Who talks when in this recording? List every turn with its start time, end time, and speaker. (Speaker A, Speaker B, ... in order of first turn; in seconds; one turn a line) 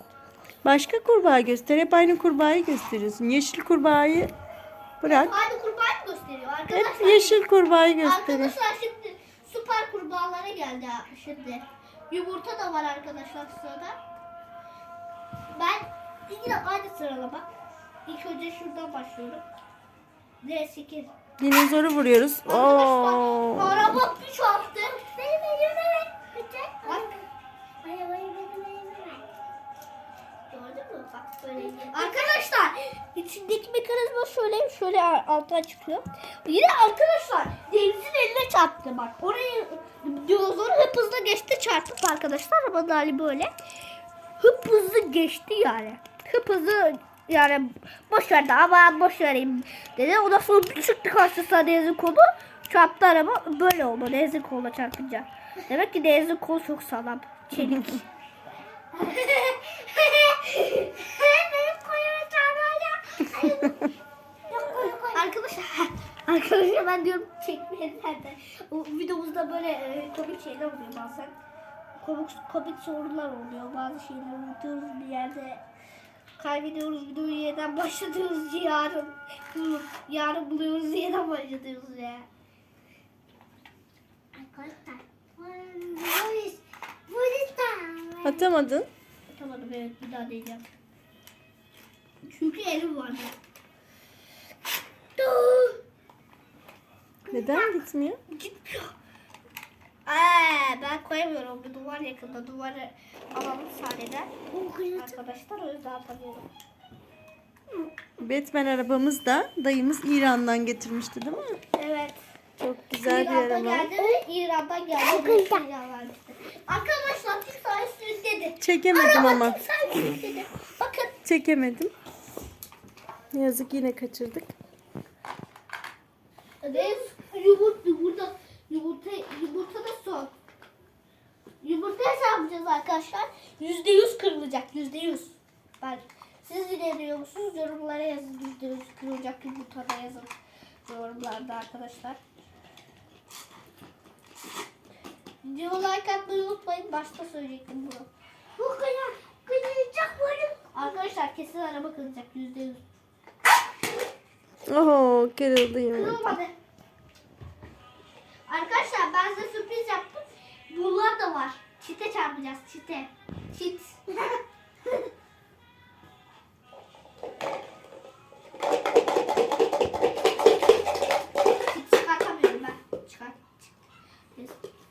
Speaker A: 0.6-4.3
Speaker A: 5.0-5.3
Speaker B: 5.0-7.4
Speaker A: 6.7-8.6
Speaker B: 8.0-14.0
Speaker B: 15.5-17.5
Speaker B: 18.1-19.4
Speaker B: 20.4-21.1
Speaker A: 21.4-24.0
Speaker B: 22.5-25.0
Speaker C: 25.0-27.2
Speaker B: 26.9-27.1
Speaker C: 27.8-29.3
Speaker B: 30.5-43.5
Speaker C: 31.5-32.3
Speaker B: 44.4-58.0
Speaker B: 58.9-61.0
Speaker C: 60.5-63.9
Speaker C: 64.5-65.3
Speaker B: 64.6-71.4
Speaker B: 72.0-75.6
Speaker B: 76.4-82.3
Speaker C: 84.3-88.5
Speaker A: 88.2-88.9
Speaker B: 89.3-90.7
Speaker B: 92.2-93.3
Speaker C: 95.2-95.8
Speaker A: 97.3-98.2
Speaker B: 97.3-97.8
Speaker B: 98.3-98.9
Speaker B: 100.1-104.4
Speaker C: 104.5-105.2
Speaker B: 104.9-106.5
Speaker A: 108.2-111.6
Speaker B: 111.7-112.2
Speaker A: 112.6-113.9
Speaker B: 113.0-121.1
Speaker C: 115.0-115.7
Speaker A: 118.6-119.6
Speaker A: 121.2-121.9
Speaker A: 123.3-124.5
Speaker B: 126.6-130.3
Speaker B: 131.6-140.3
Speaker B: 140.9-142.2
Speaker B: 145.4-148.1
Speaker C: 148.6-150.7
Speaker B: 150.7-152.8
Speaker A: 154.7-156.4
Speaker B: 155.9-156.5
Speaker B: 158.5-164.2
Speaker B: 171.5-174.6